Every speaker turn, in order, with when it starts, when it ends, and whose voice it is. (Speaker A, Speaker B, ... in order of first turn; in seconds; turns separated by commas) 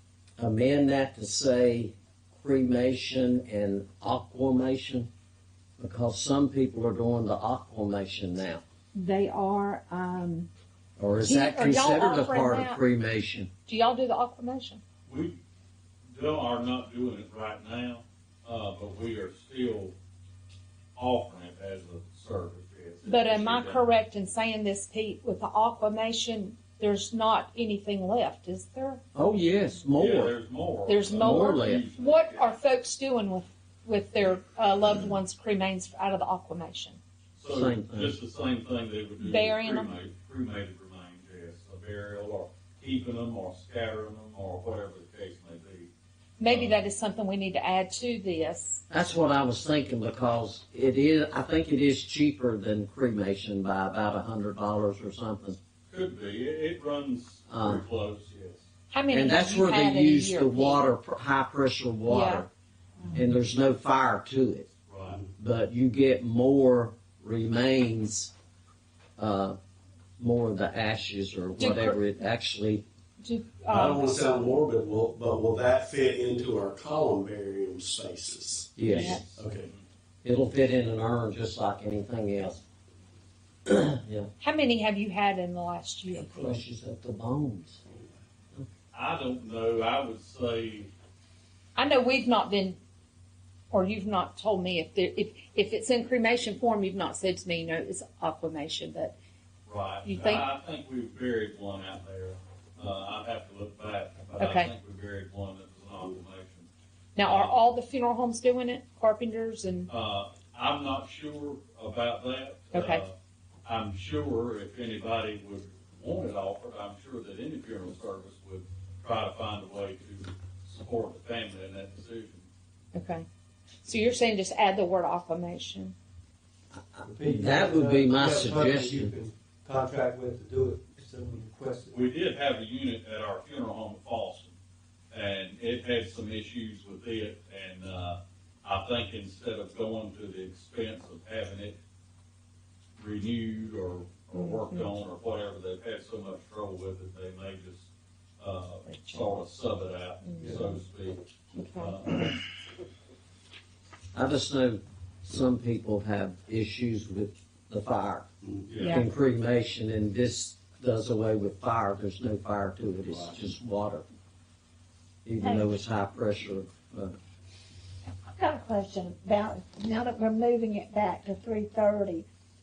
Speaker A: 0.4-5.1, Speaker A: 5.8-8.6, Speaker B: 8.9-10.5, Speaker A: 11.0-13.5, Speaker B: 11.2-12.8, Speaker B: 13.7-14.8, Speaker C: 15.1-15.4, Speaker C: 16.1-19.9, Speaker C: 20.9-23.8, Speaker B: 23.1-29.0, Speaker A: 29.1-30.3, Speaker C: 29.9-32.5, Speaker B: 30.9-37.0, Speaker A: 31.1-31.8, Speaker C: 37.4-45.9, Speaker A: 37.5-38.2, Speaker B: 39.2-39.9, Speaker B: 46.4-48.8, Speaker C: 46.4-46.8, Speaker A: 48.9-55.6, Speaker C: 55.9-58.6, Speaker A: 57.5-57.8, Speaker B: 58.9-60.9, Speaker A: 59.1-62.5, Speaker B: 62.1-62.5, Speaker A: 63.1-64.7, Speaker C: 64.9-65.2, Speaker A: 65.4-68.3, Speaker A: 69.2-69.6, Speaker A: 70.2-72.8, Speaker B: 71.6-72.0, Speaker B: 73.2-73.8, Speaker D: 73.7-79.7, Speaker A: 78.8-79.2, Speaker C: 78.9-79.8, Speaker B: 78.9-79.3, Speaker A: 80.2-82.6, Speaker A: 83.7-84.3, Speaker B: 84.4-86.6, Speaker A: 86.1-87.8, Speaker C: 88.9-90.9, Speaker B: 91.8-92.8, Speaker B: 93.7-99.2, Speaker C: 99.7-106.7, Speaker B: 100.0-100.5, Speaker B: 104.4-104.7, Speaker B: 107.2-109.9, Speaker C: 107.2-107.6, Speaker C: 109.9-122.5, Speaker B: 112.7-113.0, Speaker B: 122.9-123.3, Speaker B: 123.8-125.9, Speaker A: 126.9-129.1, Speaker E: 127.0-132.0, Speaker C: 131.9-134.5, Speaker C: 135.1-141.8, Speaker C: 143.0-147.9, Speaker B: 144.3-144.8, Speaker C: 148.4-151.2, Speaker B: 148.9-149.2, Speaker B: 150.2-150.6, Speaker B: 151.6-152.2, Speaker C: 151.8-152.3, Speaker A: 154.1-164.0, Speaker C: 158.7-159.0, Speaker B: 158.8-159.1, Speaker A: 165.2-167.2, Speaker F: 165.4-165.7, Speaker F: 168.3-172.2